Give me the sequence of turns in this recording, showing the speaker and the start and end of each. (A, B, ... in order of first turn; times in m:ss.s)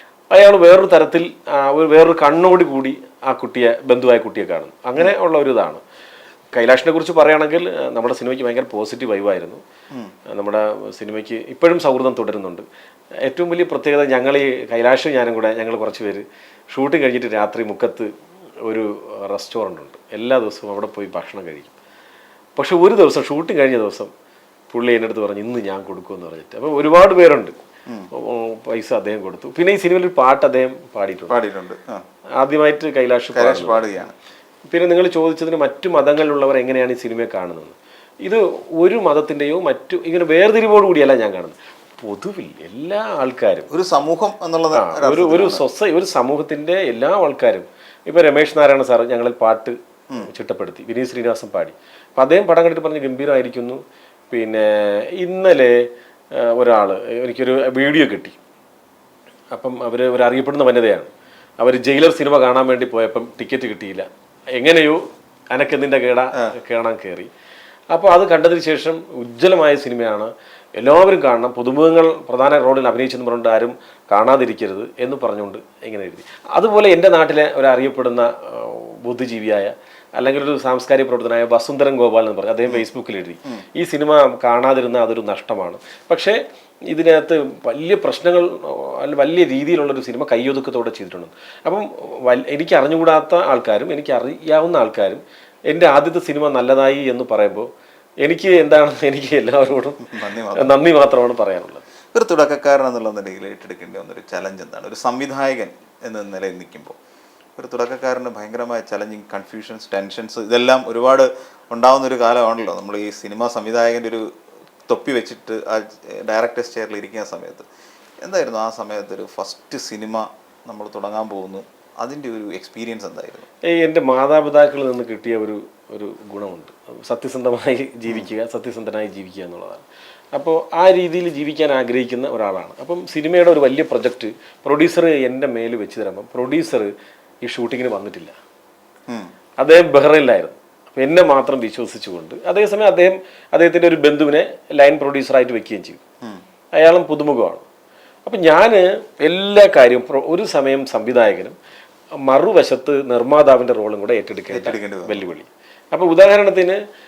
0:00.3-0:05.8 A
0:06.5-0:09.6 A
0:10.3-0:12.6 A
0:13.2-0:18.1 A
0:18.6-0:21.7 A
0:22.6-0:24.1 A
0:24.7-0:27.6 A
0:28.1-0:31.3 A
0:31.3-0:32.0 B
0:32.4-0:34.0 A
0:33.3-0:34.1 B
0:34.7-0:43.7 A
0:43.7-0:45.6 B
0:44.8-0:58.4 A
0:59.5-1:07.3 A
1:07.9-1:26.4 A
1:26.9-1:37.7 A
1:38.2-1:41.8 A
1:40.1-1:40.7 B
1:42.1-1:47.0 B
1:47.6-1:54.2 B
1:54.9-1:57.6 B
1:58.2-2:03.5 B
2:03.7-2:09.8 A
2:10.3-2:16.9 A
2:17.4-2:18.3 A
2:19.6-2:26.0 A
2:26.8-2:27.6 A
2:28.2-2:31.5 A
2:32.3-2:36.8 A
2:34.5-2:35.3 B